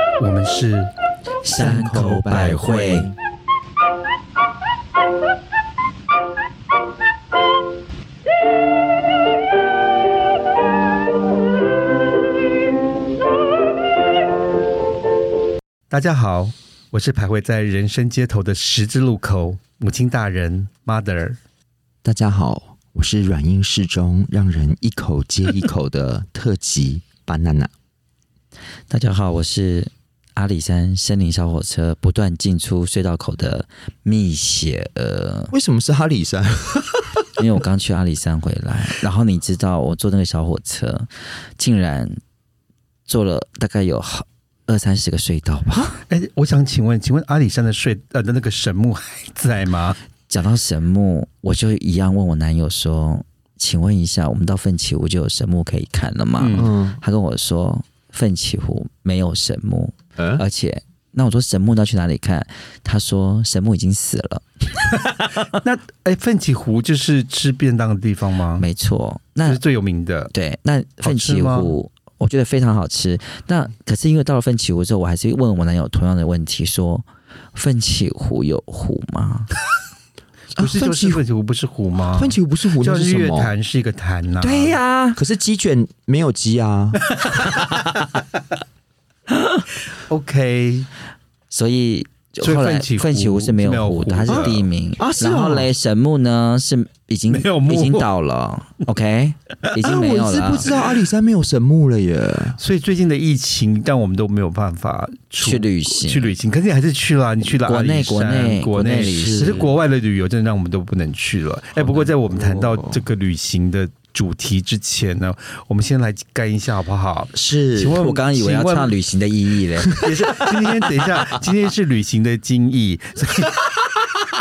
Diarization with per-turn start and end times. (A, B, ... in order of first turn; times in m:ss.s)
0:00.2-0:00.9 A
0:01.4-0:03.1 B
0:01.5-0:03.2 C
0:15.9-0:21.4 A
0:22.0-0:27.7 C
0:28.9-0:35.5 B
0:35.5-0:37.3 C
0:37.4-0:42.2 B
0:43.1-0:46.0 B
0:46.1-0:50.0 A
0:50.3-1:05.1 B
0:56.4-0:56.7 A
0:56.6-0:57.0 C
1:00.2-1:00.4 C
1:05.5-1:08.6 A
1:08.6-1:09.6 B
1:09.4-1:10.3 A
1:10.3-1:19.5 B
1:11.0-1:11.8 A
1:20.6-1:21.2 C
1:20.6-1:24.8 A
1:22.1-1:23.5 C
1:24.4-1:25.2 B
1:25.2-1:27.0 C
1:27.1-1:27.6 A
1:30.1-1:30.9 A
1:31.5-1:40.7 B
1:32.4-1:34.7 A
1:34.3-1:35.7 C
1:37.3-1:38.1 A
1:39.8-1:42.6 C
1:42.6-1:58.9 A
1:45.4-1:46.3 B
1:47.5-1:49.6 B
1:49.0-1:49.7 C
1:51.8-1:53.0 C
1:57.3-1:58.0 C
1:58.0-2:00.1 B
2:00.0-2:03.7 A